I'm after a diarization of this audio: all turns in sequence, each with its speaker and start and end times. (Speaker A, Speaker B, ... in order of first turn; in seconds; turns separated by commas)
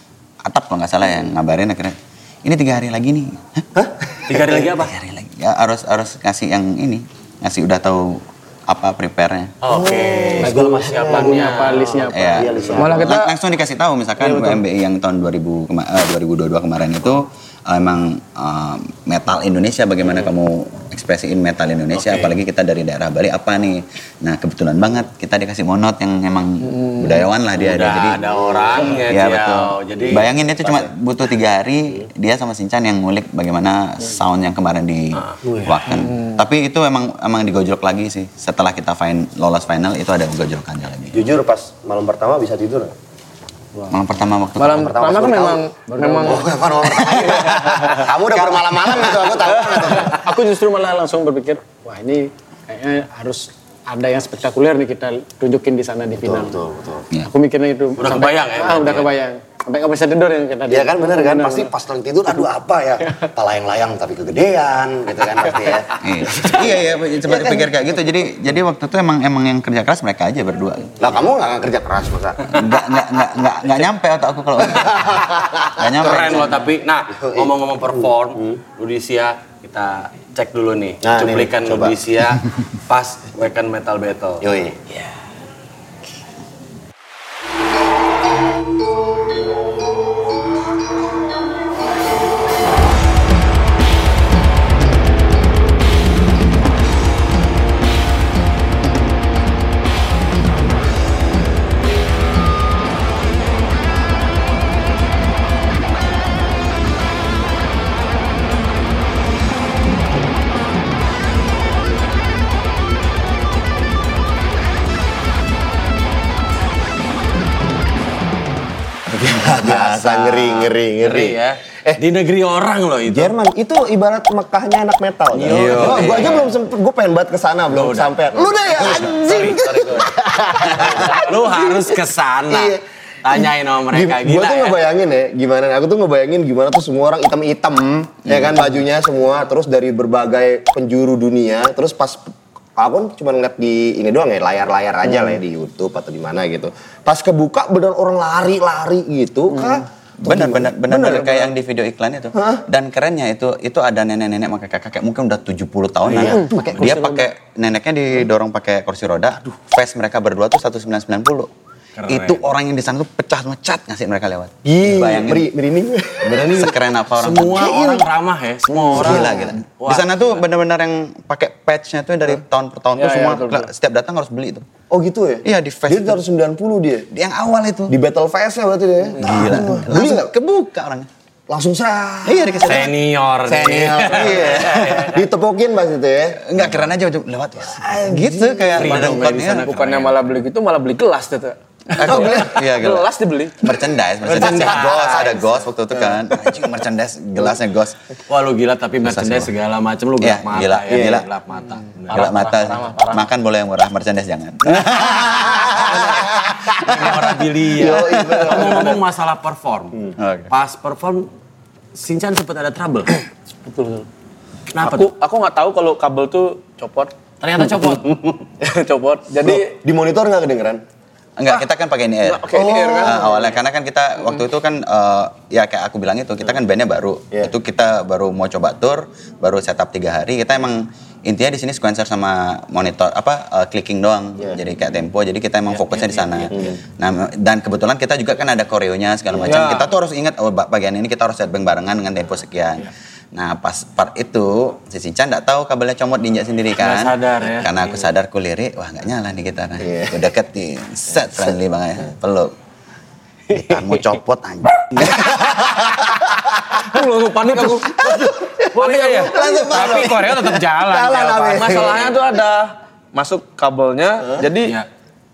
Speaker A: 0.4-3.6, Speaker B: 3.7-4.6, Speaker C: 4.3-4.9, Speaker A: 4.8-9.5, Speaker C: 9.6-12.1, Speaker B: 9.7-13.2, Speaker D: 10.4-12.8, Speaker A: 12.1-28.2, Speaker E: 12.8-13.3, Speaker E: 14.2-14.6, Speaker C: 21.9-22.3, Speaker E: 26.6-27.2, Speaker C: 27.5-30.8, Speaker B: 28.2-29.1, Speaker A: 29.0-41.2, Speaker B: 30.0-30.3, Speaker C: 35.1-35.6, Speaker E: 35.9-36.4, Speaker B: 41.1-42.9, Speaker A: 43.9-45.0, Speaker E: 44.6-46.5, Speaker B: 44.7-45.6, Speaker D: 45.9-46.5, Speaker B: 46.2-50.2, Speaker A: 46.8-49.3, Speaker D: 49.9-56.6, Speaker B: 56.2-57.1, Speaker D: 57.2-61.7, Speaker C: 58.0-59.1, Speaker B: 60.7-67.8, Speaker A: 66.0-71.2, Speaker B: 71.0-72.6, Speaker A: 72.5-76.6, Speaker B: 74.8-76.3, Speaker C: 75.8-84.4, Speaker B: 77.1-78.6, Speaker B: 81.0-82.0, Speaker B: 84.4-84.8, Speaker B: 119.1-122.0, Speaker C: 119.2-123.3, Speaker B: 123.1-131.9, Speaker C: 125.3-126.6, Speaker A: 125.5-125.9, Speaker C: 127.7-134.8, Speaker B: 132.5-132.8, Speaker B: 133.9-151.5, Speaker A: 138.3-138.6, Speaker A: 150.2-161.5, Speaker B: 152.3-152.6, Speaker B: 156.1-157.2, Speaker C: 156.1-156.9, Speaker C: 162.0-162.4, Speaker A: 162.1-165.5, Speaker B: 164.6-166.7, Speaker A: 166.3-167.9, Speaker C: 166.3-170.4, Speaker B: 167.6-168.0, Speaker B: 168.8-169.6, Speaker A: 168.9-174.6, Speaker E: 172.9-173.7, Speaker B: 174.9-177.1, Speaker A: 175.4-176.2, Speaker A: 177.1-177.9, Speaker B: 177.9-180.3, Speaker A: 179.2-181.1, Speaker B: 181.5-182.8, Speaker A: 182.2-182.9, Speaker C: 182.6-185.2, Speaker B: 183.4-186.4, Speaker A: 184.1-185.0, Speaker A: 186.4-189.7, Speaker B: 187.7-188.9, Speaker C: 188.8-190.3, Speaker E: 188.9-193.8, Speaker A: 192.0-198.0, Speaker C: 194.2-195.4, Speaker B: 194.7-195.2, Speaker C: 198.3-202.3, Speaker A: 199.0-199.5, Speaker A: 200.2-201.3, Speaker B: 200.9-201.2, Speaker E: 201.7-203.3, Speaker A: 202.1-207.3, Speaker B: 205.3-206.2, Speaker C: 206.8-211.3, Speaker B: 207.7-209.0, Speaker A: 208.1-208.6, Speaker A: 210.2-210.5, Speaker C: 211.9-213.1, Speaker E: 213.6-214.1, Speaker C: 214.7-215.1, Speaker E: 214.8-217.1, Speaker C: 217.4-218.5, Speaker E: 218.6-219.7, Speaker B: 219.4-220.8, Speaker A: 221.4-252.5, Speaker E: 222.2-223.5, Speaker B: 222.5-223.3, Speaker C: 235.7-236.7, Speaker B: 236.5-236.8, Speaker E: 239.4-239.9, Speaker C: 246.8-247.9, Speaker B: 249.8-250.2, Speaker A: 253.5-256.8, Speaker B: 255.0-256.1, Speaker E: 256.8-258.0, Speaker B: 257.7-262.1, Speaker A: 258.0-258.3, Speaker C: 258.7-261.9, Speaker E: 258.8-264.8, Speaker A: 259.1-260.6, Speaker C: 264.6-264.9